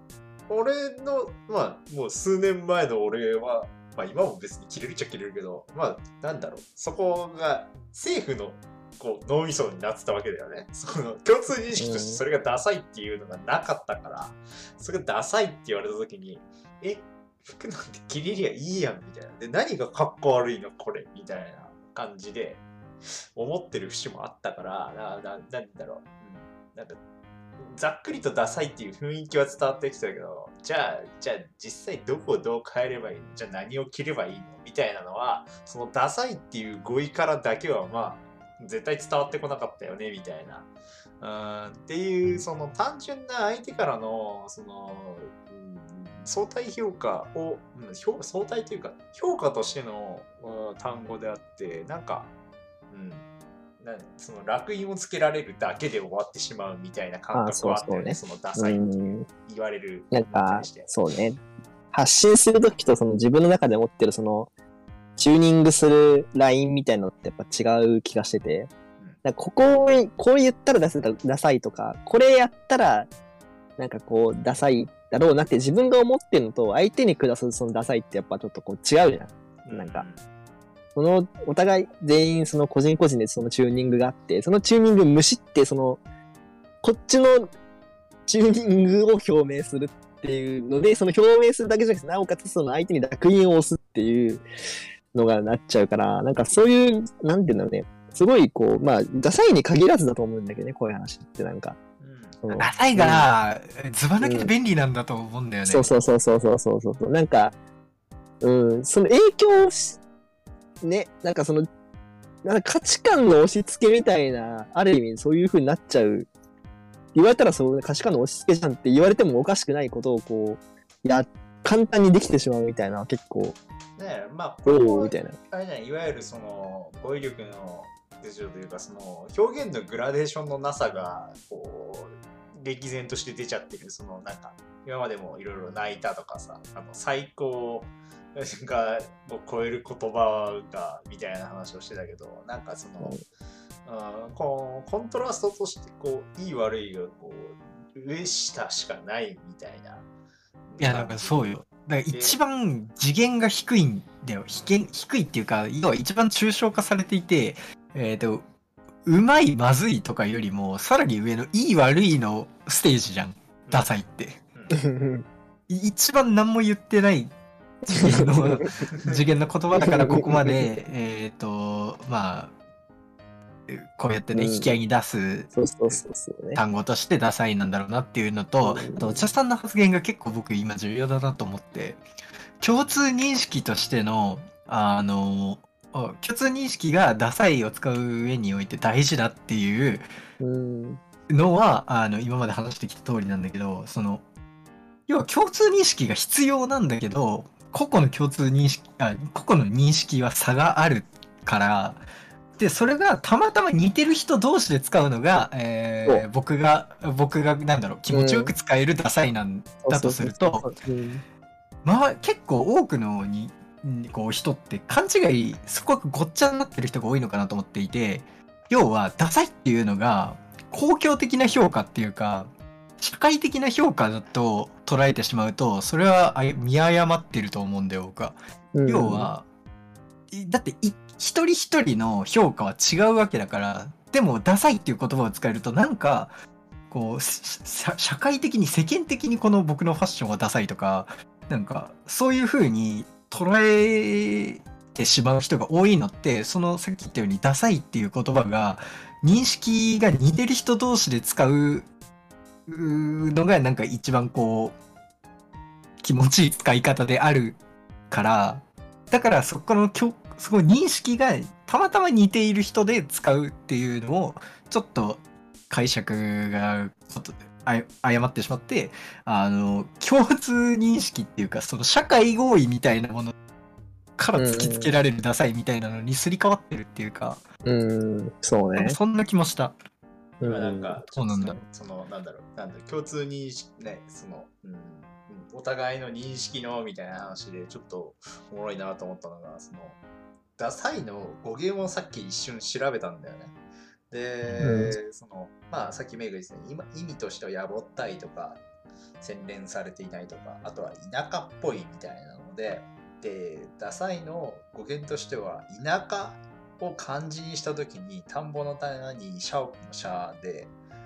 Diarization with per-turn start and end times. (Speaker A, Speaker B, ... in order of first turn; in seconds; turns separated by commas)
Speaker A: 0.5-22.6, Speaker B: 11.8-12.2, Speaker A: 23.4-27.0, Speaker A: 27.6-40.7, Speaker A: 41.2-52.3, Speaker A: 52.9-53.3, Speaker A: 53.8-60.9, Speaker B: 57.3-59.3, Speaker B: 60.1-61.4, Speaker B: 61.9-64.5, Speaker B: 65.2-68.7, Speaker B: 69.2-73.1, Speaker B: 73.8-80.1, Speaker A: 79.7-80.2, Speaker B: 81.0-86.0, Speaker B: 86.8-87.5, Speaker B: 88.3-94.4, Speaker B: 95.1-101.8, Speaker A: 102.0-102.4, Speaker B: 102.4-103.3, Speaker C: 102.5-105.9, Speaker B: 104.2-104.5, Speaker B: 105.7-107.5, Speaker B: 108.4-110.0, Speaker B: 110.8-111.7, Speaker B: 112.4-116.3, Speaker B: 117.2-123.6, Speaker A: 124.0-143.2, Speaker B: 124.7-125.3, Speaker A: 143.8-150.1, Speaker A: 150.7-151.3, Speaker C: 150.8-158.5, Speaker A: 152.1-152.4, Speaker C: 159.1-164.4, Speaker B: 164.7-165.2, Speaker C: 165.7-167.3, Speaker B: 167.9-168.7, Speaker C: 167.9-172.5, Speaker B: 169.8-170.7, Speaker C: 173.7-176.0, Speaker B: 174.3-174.7, Speaker B: 175.5-176.6, Speaker C: 176.6-182.0, Speaker B: 178.6-179.2, Speaker C: 182.6-190.1, Speaker B: 190.4-191.0, Speaker C: 191.3-194.2, Speaker C: 195.1-202.0, Speaker C: 202.6-210.7, Speaker B: 208.1-208.5, Speaker B: 209.8-211.2, Speaker C: 211.8-229.4, Speaker B: 228.7-229.3, Speaker C: 230.3-236.3, Speaker C: 236.9-251.9, Speaker C: 252.7-254.8, Speaker C: 256.0-257.6, Speaker C: 258.1-273.3, Speaker C: 274.2-277.4, Speaker B: 274.4-274.9, Speaker B: 277.6-279.0, Speaker C: 278.8-279.8, Speaker B: 280.4-281.0, Speaker A: 280.4-290.0, Speaker C: 281.2-281.6, Speaker A: 290.6-293.6, Speaker A: 294.1-298.6, Speaker C: 294.4-294.8, Speaker B: 294.6-294.9, Speaker A: 299.2-310.7